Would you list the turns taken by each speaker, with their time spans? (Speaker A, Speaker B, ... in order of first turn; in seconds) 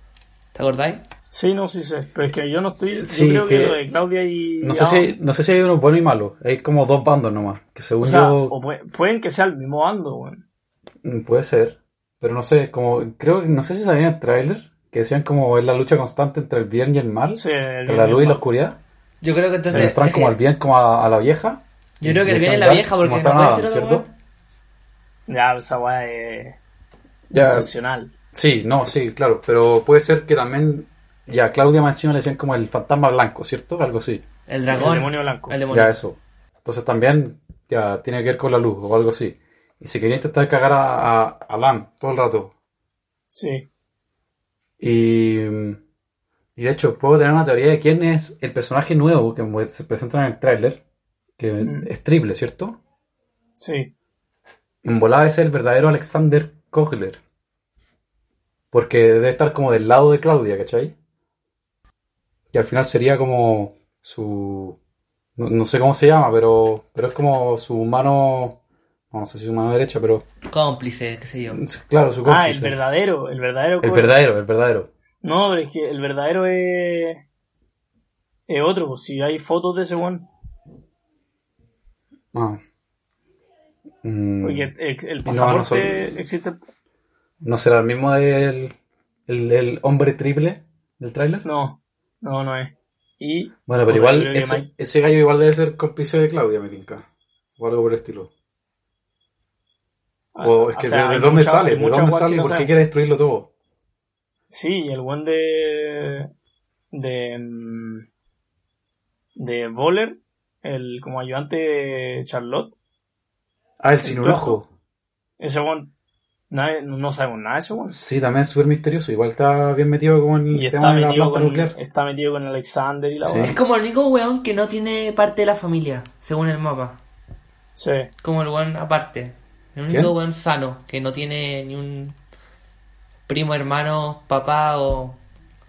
Speaker A: 0.5-1.0, 19.2-20.4, 22.0-24.1, 34.5-36.0, 70.5-71.6, 123.4-127.0, 128.2-132.2, 133.3-135.2
Speaker B: 1.3-5.1, 8.0-10.4, 17.4-18.4, 25.3-26.6, 27.4-28.1, 34.7-35.6, 43.3-43.7, 51.6-51.9, 53.6-53.9, 72.2-74.1, 75.2-77.2, 78.5-80.3, 84.4-86.6, 91.4-94.7, 100.3-102.7, 104.5-106.3, 106.9-108.0, 109.4-112.7, 114.0-114.6, 115.4-115.9, 116.5-118.0, 120.5-123.6, 127.8-128.1
Speaker C: 3.0-3.8, 4.6-8.5, 11.0-18.8, 19.7-24.1, 27.3-27.7, 28.3-34.2, 35.7-42.5, 44.8-45.8, 46.5-50.8, 51.4-52.8, 54.8-57.2, 58.7-60.9, 62.5-64.8, 65.4-68.6, 69.1-70.2, 71.5-72.8, 73.8-74.9, 82.3-82.6, 84.0-84.7, 85.2-86.2, 87.4-88.7, 89.3-91.4, 93.7-97.0, 97.6-98.3, 100.4-103.5, 113.8-114.7, 117.9-121.8, 123.2-123.6